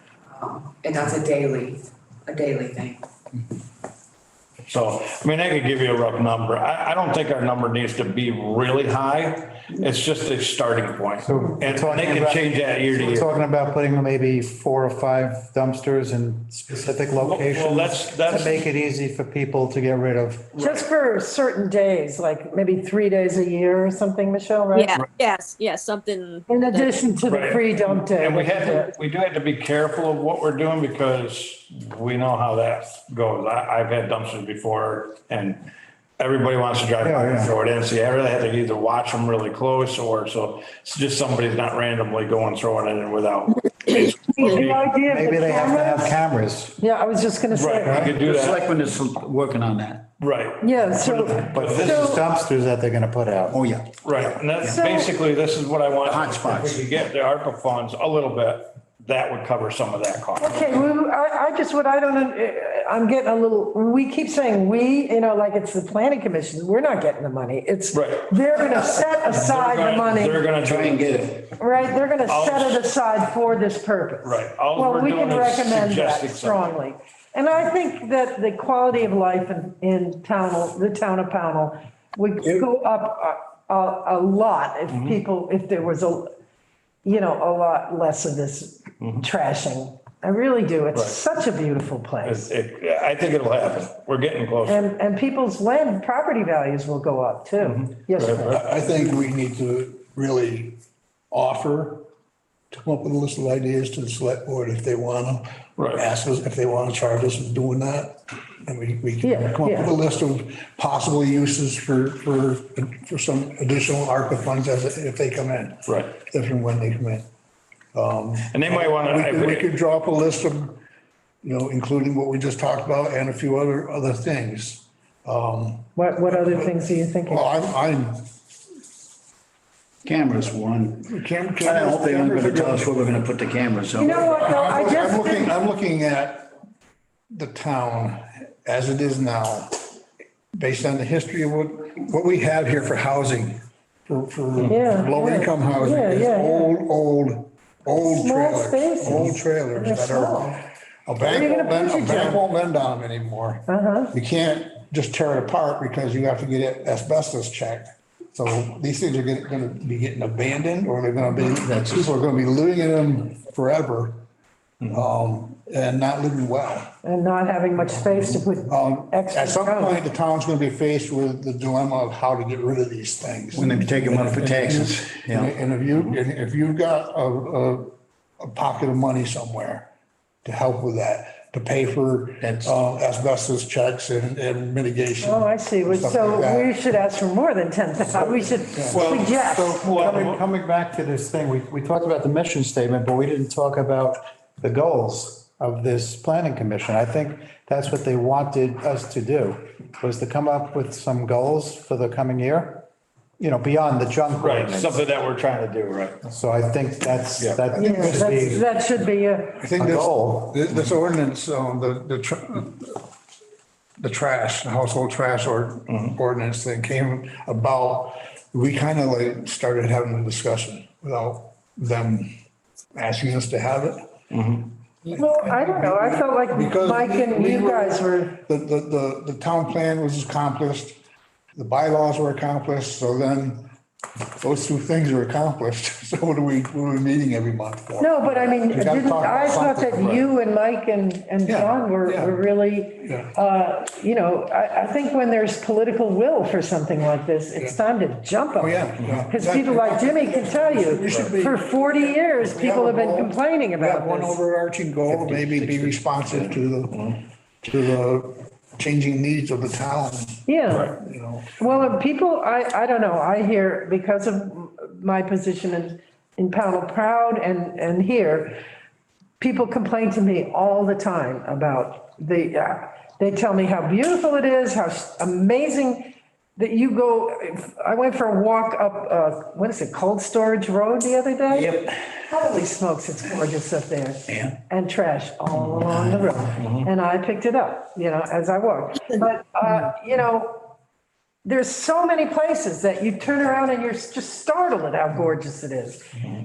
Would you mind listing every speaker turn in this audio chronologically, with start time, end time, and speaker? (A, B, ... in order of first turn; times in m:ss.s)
0:00.3-0:03.0 A
0:04.7-0:13.3 B
0:11.2-0:20.5 C
0:17.2-0:18.6 B
0:20.5-0:20.8 B
0:20.6-0:25.0 D
0:24.7-0:27.2 E
0:26.5-0:28.9 D
0:27.3-0:35.6 B
0:36.2-0:44.9 B
0:37.0-0:37.5 C
0:44.3-0:46.2 D
0:45.0-0:46.8 C
0:46.8-0:48.1 D
0:47.5-0:48.7 B
0:47.9-0:50.0 F
0:50.2-0:52.2 B
0:50.6-0:52.2 D
0:51.1-0:53.6 C
0:53.5-0:54.9 F
0:54.0-1:00.8 B
0:56.0-0:56.8 F
1:00.4-1:10.4 D
1:07.9-1:08.3 B
1:09.2-1:11.2 B
1:10.6-1:11.5 F
1:11.6-1:26.3 D
1:12.2-1:12.9 B
1:14.2-1:16.7 B
1:24.9-1:25.2 B
1:27.0-1:32.5 D
1:32.2-1:34.8 B
1:34.6-1:38.6 D
1:37.6-1:38.6 B
1:38.5-1:40.8 G
1:41.3-1:42.1 G
1:42.7-1:57.2 G
1:45.8-1:46.0 B
1:49.2-1:49.9 D
1:55.8-1:56.1 B
1:57.9-2:00.8 G
1:58.5-1:59.7 B
2:01.4-2:08.3 G
2:06.0-2:07.5 D
2:10.0-2:14.4 F
2:11.0-2:13.0 G
2:13.9-2:15.6 D
2:14.0-2:16.5 G
2:17.3-2:19.8 G
2:20.5-2:44.2 G
2:24.7-2:26.7 D
2:28.0-2:30.6 D
2:31.2-2:32.4 D
2:33.7-2:34.1 D
2:44.9-2:46.9 G
2:47.0-2:50.0 D
2:48.7-2:59.9 G
2:53.5-2:55.5 F
3:00.4-3:06.7 G
3:02.4-3:02.7 F
3:05.2-3:09.8 D
3:08.7-3:09.0 G
3:08.9-3:10.4 B
3:09.3-3:22.8 C
3:23.4-3:25.0 C
3:24.4-3:26.2 B
3:26.2-3:28.6 C
3:27.8-3:28.6 G
3:27.8-3:29.6 D
3:29.6-3:33.0 G
3:29.7-3:30.6 C
3:34.0-3:42.3 G
3:35.9-3:36.2 B
3:42.9-3:44.1 G
3:44.3-3:44.7 B
3:45.0-3:51.0 G
3:45.1-3:48.4 D
3:51.6-3:53.7 G
3:54.4-4:00.2 G
3:58.0-4:14.4 D
4:01.4-4:02.4 G
4:03.0-4:03.3 G
4:08.6-4:22.0 G
4:15.1-4:15.9 F
4:20.5-4:21.0 D
4:21.6-4:28.6 D
4:29.4-4:50.7 D
4:41.5-4:41.9 F
4:46.6-4:46.9 B
4:51.4-4:56.1 D